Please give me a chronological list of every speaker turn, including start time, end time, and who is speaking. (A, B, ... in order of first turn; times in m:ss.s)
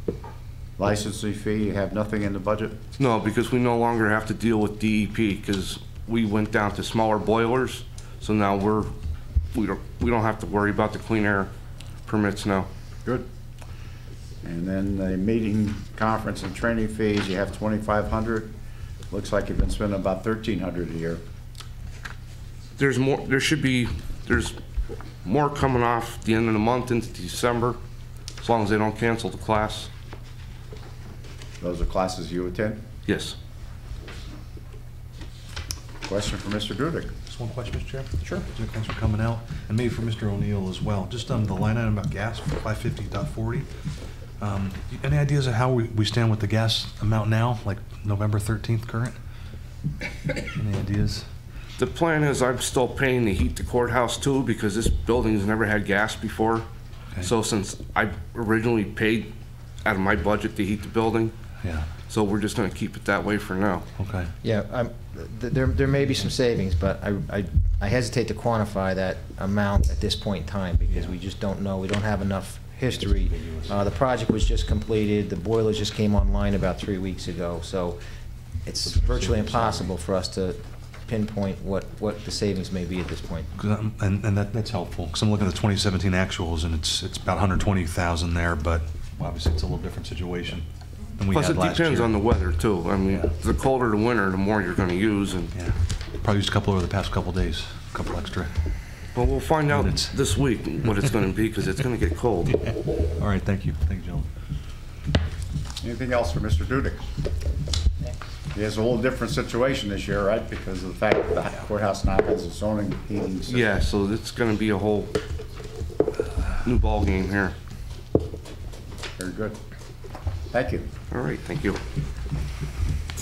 0:00.8-0:02.8 A
0:03.0-0:08.9 B
0:09.5-0:11.5 B
0:12.1-0:12.7 B
0:14.4-0:18.5 A
0:19.1-0:21.2 A
0:22.8-0:24.6 B
0:25.2-0:27.8 B
0:28.4-0:29.9 B
0:31.6-0:32.8 A
0:33.1-0:33.4 B
0:36.0-0:37.1 A
0:37.3-0:43.7 C
0:44.4-0:49.2 C
0:50.5-0:51.2 C
0:51.8-0:56.7 B
0:57.2-0:59.3 B
0:59.8-1:01.4 B
1:01.6-1:01.9 C
1:02.1-1:03.9 B
1:04.0-1:04.3 C
1:04.4-1:18.0 D
1:13.1-1:13.8 C
1:18.7-1:23.5 D
1:18.9-1:19.9 C
1:23.6-1:30.6 C
1:31.2-1:32.3 C
1:31.3-1:35.5 B
1:33.1-1:33.3 C
1:35.5-1:38.5 C
1:39.2-1:42.6 B
1:39.7-1:40.2 C
1:42.6-1:44.3 C
1:45.8-1:47.1 A
1:48.5-1:53.7 A
1:53.5-1:55.1 B
1:56.6-1:57.6 B
1:59.2-1:59.6 A
2:00.5-2:00.9 A
2:01.1-2:01.8 B